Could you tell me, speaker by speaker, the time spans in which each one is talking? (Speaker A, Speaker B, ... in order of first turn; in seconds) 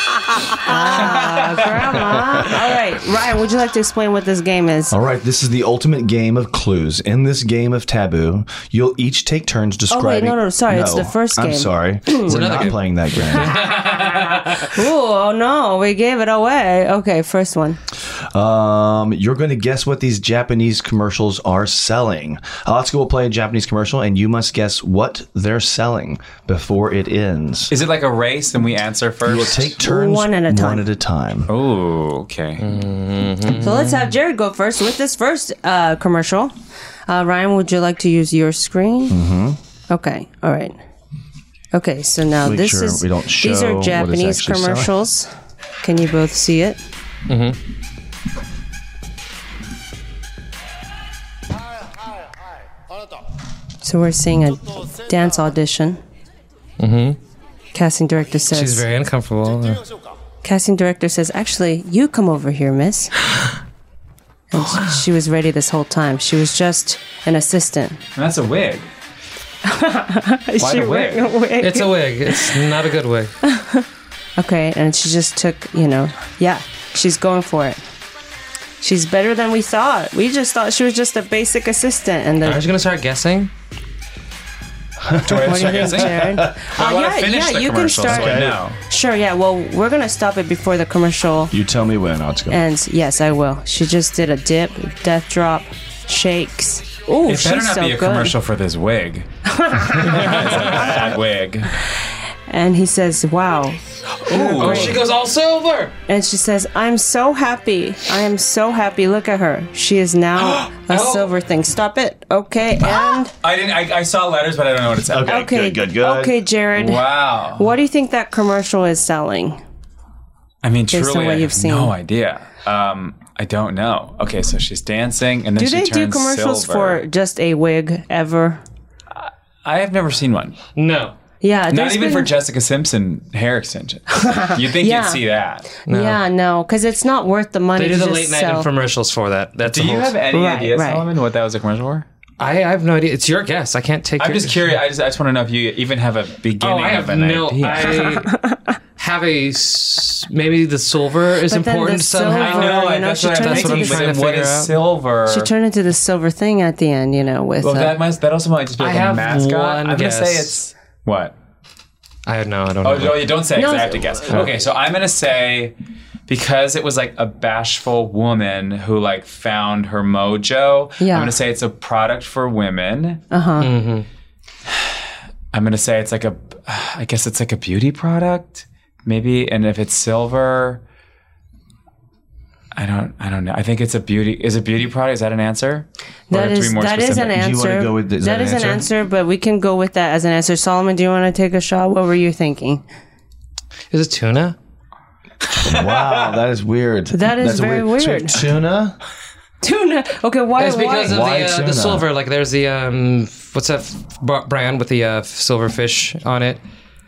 Speaker A: 0.5-5.0, 9.9-12.4, 13.5-17.8, 29.8-30.9, 33.5-36.5, 37.1-39.2, 39.9-40.8, 41.7-45.3, 45.8-46.8, 53.8-56.0, 57.7-58.9, 60.4-63.1, 64.5-68.0, 69.7-72.6, 73.4-73.9, 74.4-77.8, 78.8-82.7, 85.4-91.5, 92.5-98.4, 99.5-101.1, 102.5-105.0, 106.1-113.3, 115.3-119.6, 120.9-121.9, 125.6-128.6, 131.4-132.3, 134.1-138.7, 140.3-141.1, 148.1-148.6, 151.5-154.1, 155.3-158.0, 163.6-164.4, 171.0-171.4, 173.3-173.7, 186.3-192.8, 197.1-198.4, 199.6-201.3
Speaker B: 0.9-2.2, 27.7-29.8, 31.5-32.7, 68.2-68.9, 70.6-71.3, 85.2-88.8, 97.3-99.3, 100.0-101.7, 104.2-105.0, 110.5-111.3, 113.4-115.5, 116.8-117.7, 120.6-127.0, 129.1-130.6, 131.7-135.7, 139.6-142.1, 144.2-148.1, 152.3-155.5, 157.6-161.3, 162.8-165.8, 166.3-173.2, 174.7-180.8, 182.8-187.4, 195.7-196.3
Speaker C: 4.9-13.6, 18.3-27.7, 29.3-31.5, 39.1-39.6, 42.4-44.9, 85.0-86.6, 88.0-88.6, 91.5-92.6, 115.1-116.4, 187.2-188.9, 195.6-199.0, 201.0-202.1
Speaker D: 12.3-14.8, 32.6-34.1, 47.3-47.6, 56.8-57.2, 58.5-59.8, 64.5-65.0, 71.6-73.3, 82.4-83.5, 104.5-105.9, 130.8-131.2, 135.9-136.2, 137.8-140.2, 142.4-144.7, 146.6-148.3, 149.0-154.7, 158.8-160.6, 162.3-163.4, 173.6-174.1, 193.9-194.6, 200.6-206.6